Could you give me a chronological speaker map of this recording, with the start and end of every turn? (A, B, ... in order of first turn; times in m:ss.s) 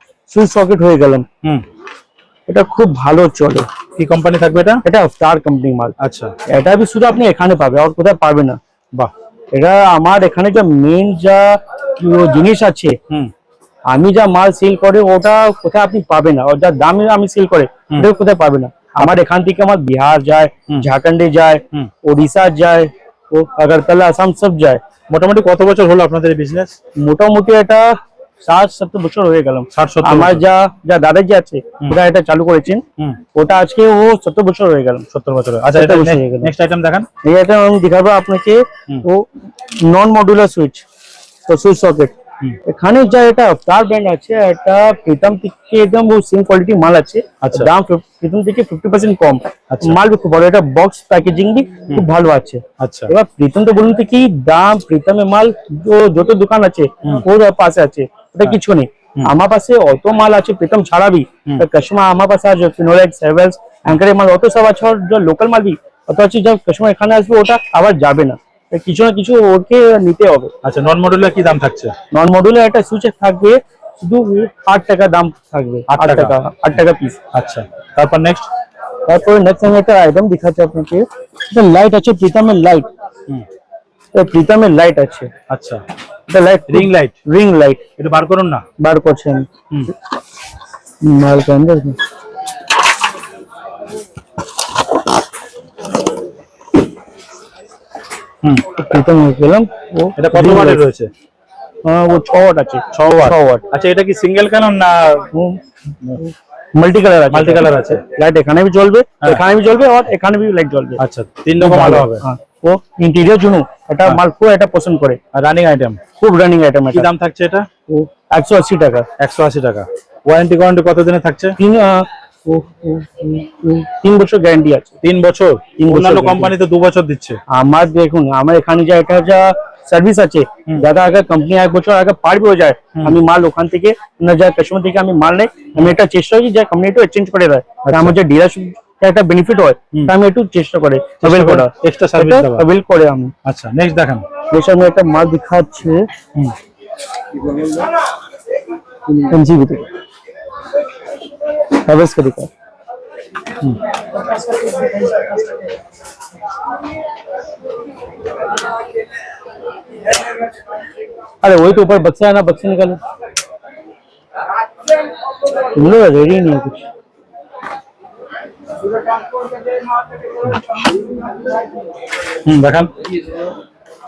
0:00.3-0:01.2 A
0:02.5-0:03.7 A
0:04.0-0:04.8 B
0:04.8-0:06.0 A
0:06.0-0:06.3 B
0:06.5-0:08.6 A
0:09.5-0:13.0 A
0:13.9-0:24.8 A
0:25.1-0:26.8 B
0:27.0-0:35.0 A
0:29.7-0:30.4 B
0:35.1-0:37.1 B
0:35.7-0:36.5 A
0:37.2-0:40.8 A
0:41.5-0:42.1 A
0:42.6-1:10.5 A
0:47.4-0:47.7 B
0:49.7-0:50.0 B
0:52.8-0:53.1 B
1:10.6-1:12.0 B
1:12.1-1:17.2 A
1:15.9-1:16.4 B
1:17.3-1:18.5 B
1:19.1-1:22.9 A
1:24.1-1:25.3 A
1:25.5-1:25.8 B
1:26.3-1:27.8 A
1:26.7-1:27.2 B
1:28.0-1:28.7 B
1:28.8-1:29.5 A
1:31.0-1:32.0 A
1:38.7-1:40.8 A
1:40.2-1:41.1 B
1:41.8-1:43.6 A
1:42.9-1:45.3 B
1:45.3-1:45.6 A
1:46.2-1:51.0 A
1:47.3-1:48.0 B
1:51.0-1:52.2 B
1:51.6-1:55.2 A
1:55.3-1:56.0 B
1:56.2-1:57.1 A
1:56.9-1:57.7 B
1:57.9-1:59.1 A
1:59.2-2:01.6 B
2:01.6-2:04.9 A
2:05.0-2:07.4 B
2:05.8-2:06.5 A
2:07.5-2:23.3 A
2:17.8-2:18.2 B
2:21.2-2:22.7 B
2:23.4-2:24.3 B
2:24.5-2:26.1 A
2:29.1-2:29.9 A
2:31.7-2:32.5 A
2:41.4-2:43.0 A
2:45.7-2:46.8 A
2:52.4-2:52.9 B